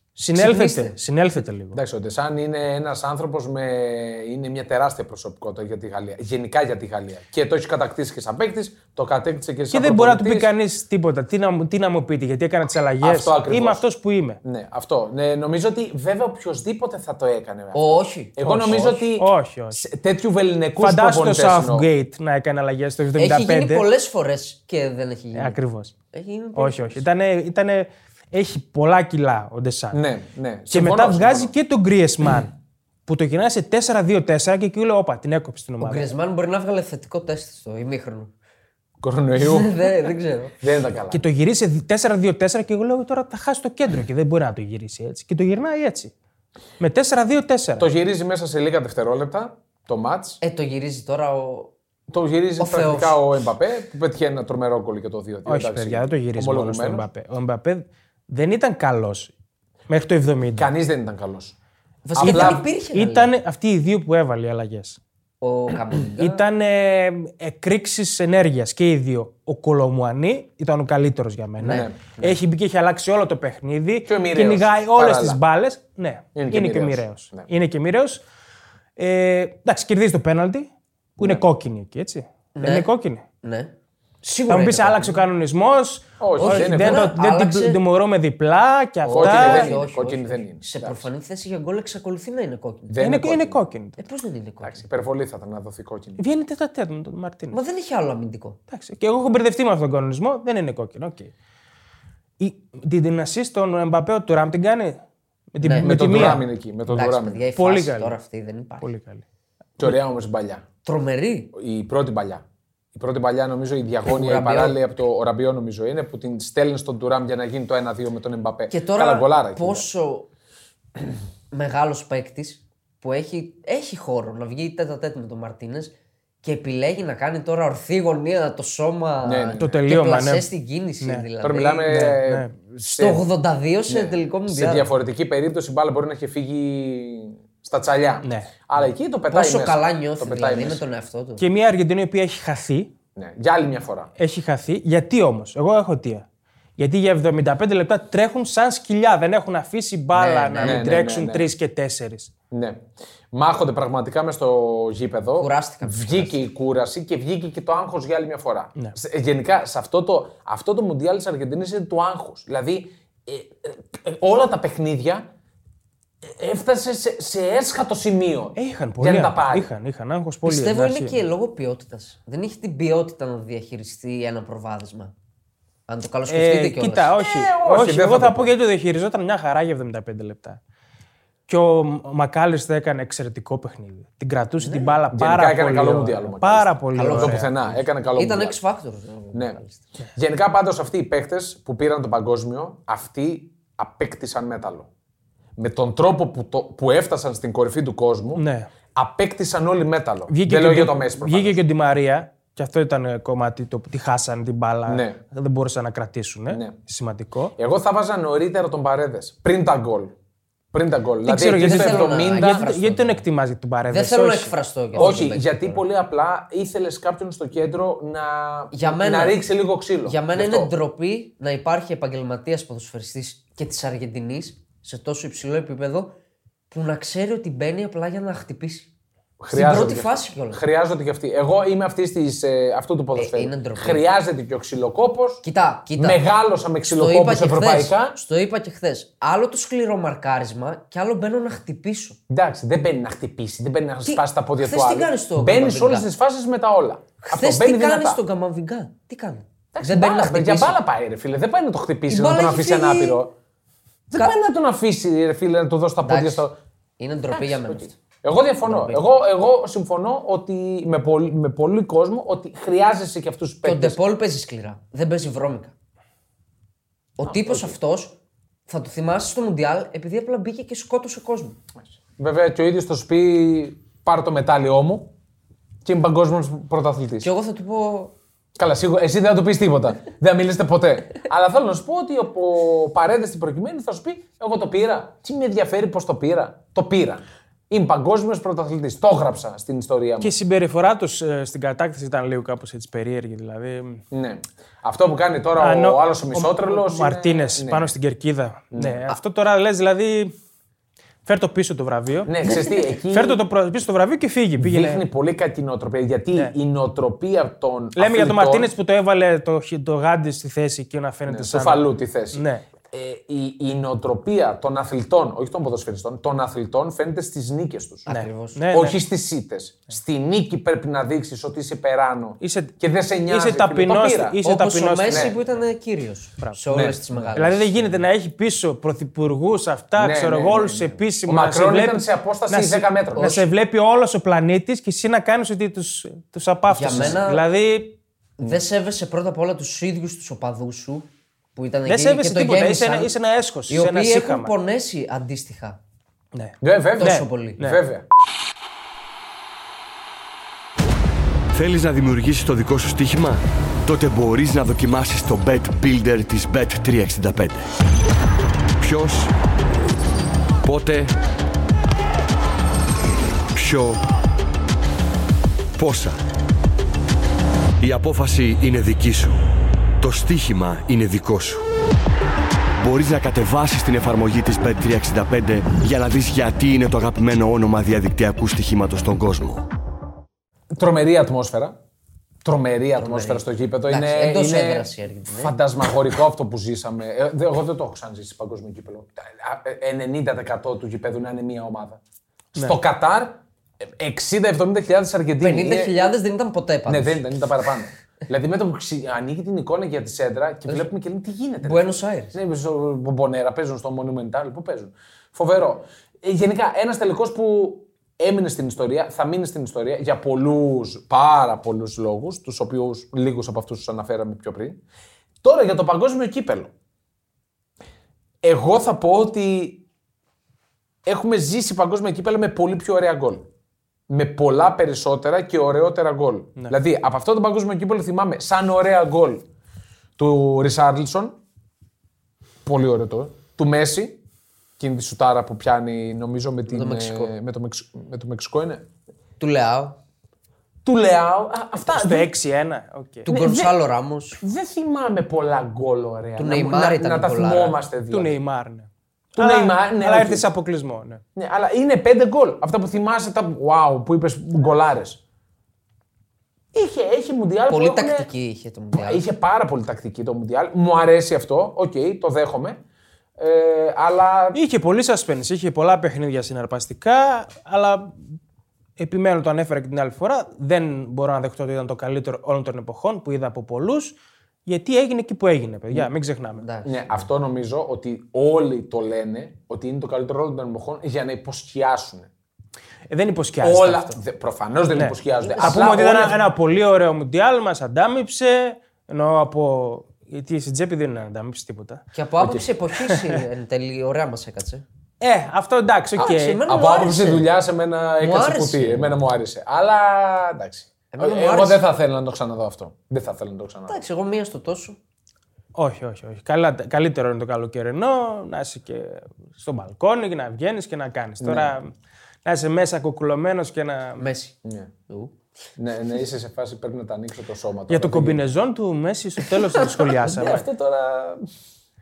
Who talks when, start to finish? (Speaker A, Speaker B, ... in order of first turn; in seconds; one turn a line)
Speaker A: 0.2-1.8
Speaker B: 0.3-1.0
Speaker C: 1.7-10.5
Speaker A: 9.7-14.4
Speaker C: 13.0-13.8
Speaker C: 14.4-21.9
Speaker B: 17.7-18.4
Speaker A: 18.4-19.8
Speaker A: 20.8-23.9
Speaker B: 23.2-25.6
Speaker A: 25.3-25.9
Speaker B: 26.1-27.0
Speaker A: 26.6-30.0
Speaker C: 29.9-31.5
Speaker A: 30.7-32.5
Speaker A: 33.1-36.1
Speaker B: 35.8-38.3
Speaker C: 39.0-39.9
Speaker B: 39.4-40.5
Speaker C: 40.6-41.2
Speaker A: 41.1-46.1
Speaker A: 46.8-47.9
Speaker C: 47.8-50.4
Speaker B: 50.4-51.7
Speaker C: 52.1-57.1
Speaker B: 52.6-53.2
Speaker A: 55.5-59.3
Speaker A: 59.9-60.7
Speaker C: 60.5-61.6
Speaker B: 62.0-63.3
Speaker C: 62.1-62.6
Speaker A: 62.2-65.0
Speaker B: 65.4-66.4
Speaker A: 66.2-78.2
Speaker C: 71.6-72.4
Speaker B: 71.6-71.9
Speaker C: 74.1-75.4
Speaker C: 76.3-77.5
Speaker A: 79.0-83.2
Speaker B: 82.5-85.2
Speaker A: 84.5-89.8
Speaker C: 86.2-87.1
Speaker B: 86.4-87.8
Speaker C: 89.1-91.1
Speaker B: 89.1-93.0
Speaker C: 92.9-93.6
Speaker A: 93.0-94.0
Speaker B: 94.0-94.8
Speaker C: 94.6-96.2
Speaker A: 96.2-97.6
Speaker B: 97.5-98.6
Speaker A: 98.7-101.3
Speaker A: 102.4-105.0
Speaker A: 105.5-106.5
Speaker B: 105.6-106.3
Speaker C: 105.8-107.4
Speaker B: 106.9-108.9
Speaker A: 107.6-108.2
Speaker A: 108.8-109.2
Speaker C: 109.8-110.7
Speaker B: 110.8-111.5
Speaker C: 111.5-119.9
Speaker B: 114.0-114.8
Speaker B: 118.7-120.3
Speaker B: 121.5-132.0
Speaker C: 129.2-129.8
Speaker A: 129.6-130.5
Speaker A: 131.0-131.3
Speaker C: 131.4-133.2
Speaker A: 131.9-132.5
Speaker B: 132.8-134.9
Speaker C: 133.9-140.8
Speaker A: 138.2-138.5
Speaker B: 139.3-141.4
Speaker A: 141.4-142.9
Speaker C: 143.2-144.1
Speaker A: 144.2-146.2
Speaker A: 146.8-152.3
Speaker B: 150.1-150.9
Speaker C: 150.6-151.5
Speaker C: 152.5-165.3
Speaker B: 155.4-156.4
Speaker C: 166.2-169.7
Speaker A: 168.6-171.2
Speaker B: 170.4-175.1
Speaker B: 175.9-177.1
Speaker A: 176.3-180.6
Speaker C: 177.2-178.5
Speaker A: 181.5-187.5
Speaker B: 184.6-184.9
Speaker C: 185.1-188.6
Speaker B: 186.9-189.8
Speaker C: 189.3-189.6
Speaker C: 190.2-194.9
Speaker C: 195.6-198.4
Speaker A: 198.4-198.7
Speaker C: 198.9-201.6
Speaker A: 200.3-207.5
Speaker C: 204.9-205.2
Speaker C: 206.5-206.8
Speaker C: 207.6-210.1
Speaker C: 210.7-212.8
Speaker A: 211.2-215.2
Speaker B: 211.5-213.2
Speaker B: 213.9-215.8
Speaker C: 215.0-220.7
Speaker B: 218.7-219.4
Speaker B: 220.1-226.1
Speaker B: 226.7-228.9
Speaker C: 229.4-235.4
Speaker B: 229.5-230.6
Speaker B: 233.2-234.0
Speaker B: 235.4-236.2
Speaker C: 236.0-238.2
Speaker B: 236.9-242.2
Speaker C: 242.3-248.2
Speaker B: 244.1-246.1
Speaker B: 247.2-250.8
Speaker C: 249.7-253.3
Speaker B: 252.1-253.2
Speaker C: 254.1-256.6
Speaker B: 256.0-256.5
Speaker B: 257.0-258.0
Speaker C: 257.3-264.0
Speaker B: 258.6-259.0
Speaker B: 263.6-265.7
Speaker B: 267.2-268.2
Speaker C: 267.2-267.8
Speaker B: 268.7-271.6
Speaker C: 272.2-275.1
Speaker C: 275.9-277.3
Speaker B: 277.2-278.1
Speaker C: 278.6-290.3
Speaker A: 290.2-294.0
Speaker C: 294.1-297.9
Speaker A: 295.6-300.4
Speaker C: 298.7-299.1
Speaker A: 301.3-305.0
Speaker C: 302.3-303.4
Speaker C: 304.6-308.7
Speaker A: 308.0-312.6
Speaker C: 311.3-318.1
Speaker B: 318.1-318.6
Speaker A: 318.1-319.0
Speaker C: 318.7-324.4
Speaker A: 322.4-325.4
Speaker B: 324.4-327.6
Speaker C: 325.1-325.4
Speaker A: 326.4-337.9
Speaker C: 326.7-328.0
Speaker C: 330.0-333.4
Speaker B: 333.2-333.5
Speaker B: 336.7-337.4
Speaker C: 336.9-337.2
Speaker B: 338.4-343.1
Speaker A: 341.9-344.5
Speaker B: 343.7-345.8
Speaker A: 346.3-347.8
Speaker C: 346.6-348.1
Speaker B: 347.0-347.6
Speaker D: 351.5-357.7
Speaker D: 358.8-359.3
Speaker D: 360.6-361.1
Speaker D: 363.5-364.0
Speaker D: 365.8-366.2
Speaker D: 367.8-369.4
Speaker D: 370.0-371.6
Speaker D: 372.8-379.6
Speaker C: 380.7-381.8
Speaker C: 382.4-392.0
Speaker B: 383.0-385.6
Speaker C: 392.6-396.1
Speaker B: 395.4-397.2
Speaker C: 396.9-414.8
Speaker B: 401.6-402.4
Speaker C: 415.4-416.7
Speaker C: 418.4-419.8
Speaker C: 421.1-423.5
Speaker C: 424.1-429.4
Speaker C: 430.2-431.4
Speaker C: 432.6-434.2
Speaker C: 434.8-438.9
Speaker B: 436.7-437.3
Speaker B: 439.4-440.0
Speaker C: 440.9-442.3
Speaker A: 441.9-443.3
Speaker B: 443.3-444.4
Speaker C: 443.3-443.8
Speaker C: 444.4-448.3
Speaker B: 446.4-447.8
Speaker A: 448.1-451.2
Speaker C: 449.4-450.5
Speaker C: 451.4-455.2
Speaker C: 456.7-458.3
Speaker B: 457.7-459.2
Speaker C: 458.9-462.8
Speaker C: 463.4-464.6
Speaker A: 464.5-468.2
Speaker A: 469.0-476.6
Speaker B: 476.6-477.2
Speaker C: 476.8-482.3
Speaker A: 483.1-484.2
Speaker C: 483.6-486.4
Speaker A: 484.9-492.0
Speaker B: 485.4-486.1
Speaker B: 492.1-494.8
Speaker A: 493.0-493.4
Speaker A: 495.2-496.6
Speaker B: 496.2-497.5
Speaker C: 496.2-504.0
Speaker B: 498.2-499.2
Speaker B: 501.1-501.8
Speaker B: 503.9-505.0
Speaker A: 505.8-511.9
Speaker C: 511.4-511.7
Speaker A: 512.5-514.2
Speaker B: 514.2-514.6
Speaker C: 514.6-514.9
Speaker B: 515.1-515.4
Speaker C: 515.8-518.4
Speaker A: 517.9-520.7
Speaker B: 519.5-520.0
Speaker C: 520.2-521.5